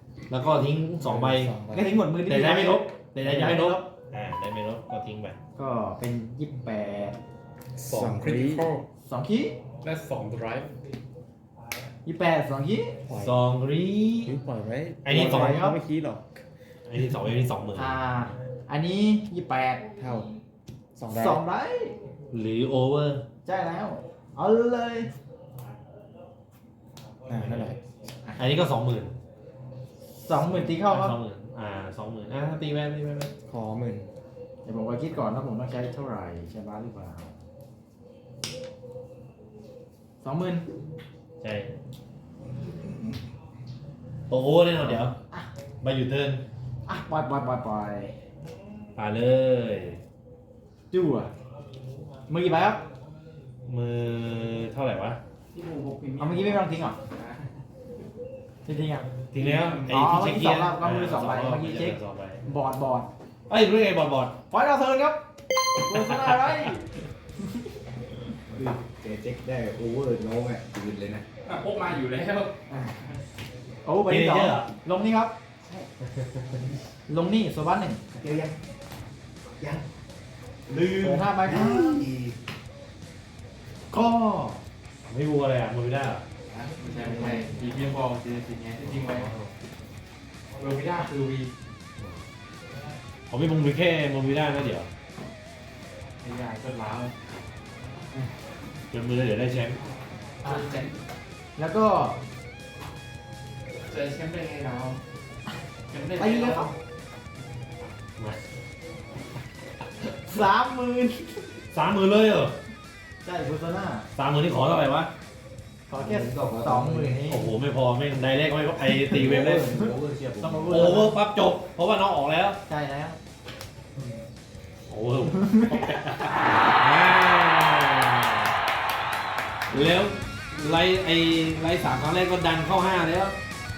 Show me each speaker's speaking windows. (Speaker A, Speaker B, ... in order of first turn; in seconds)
Speaker A: 0.3-1.5, 2.2-5.4, 13.1-14.3, 15.0-15.6, 16.9-18.0, 22.3-23.2, 27.3-27.8, 28.4-29.1, 30.4-33.3, 41.4-41.7, 44.3-45.1, 45.8-46.4, 49.0-50.0, 53.7-55.2, 59.3-62.4, 63.5-64.4, 65.9-66.5, 74.0-74.7, 85.1-86.2, 88.8-89.5, 93.3-94.9, 98.9-99.8, 111.7-112.6, 114.1-115.1, 117.2-119.8, 120.7-122.6, 124.9-128.4, 129.7-133.3
Speaker B: 1.0-2.0, 7.8-8.7, 13.1-13.3, 14.2-16.4, 20.0-20.3, 20.9-21.4, 27.2-27.8, 33.5-34.1, 116.7-117.0
Speaker C: 1.7-3.9, 5.5-7.2, 9.0-9.6, 12.0-13.0, 15.1-15.8, 17.8-19.9, 21.1-22.0, 23.4-25.1, 30.2-31.1, 34.6-37.3, 40.2-40.6, 44.8-45.5, 46.9-48.1, 50.9-51.3, 52.3-52.8, 56.2-57.0, 58.6-63.1, 64.5-65.2, 65.8-66.8, 73.8-75.3, 77.1-78.0, 81.0-82.0, 83.9-84.6, 100.4-100.7, 101.5-102.2, 106.2-106.7, 110.2-111.6, 113.2-114.1, 115.9-117.5, 119.7-121.1, 122.7-123.2
Speaker D: 7.9-8.8, 9.8-10.7, 55.5-56.6, 71.4-72.6, 86.5-89.3, 90.6-91.5, 96.2-97.1, 100.4-101.0, 103.9-105.0, 105.9-106.7
Speaker E: 68.5-71.3, 78.1-78.5, 79.6-79.8, 80.7-82.4, 86.5-87.8, 116.0-117.1, 119.1-120.9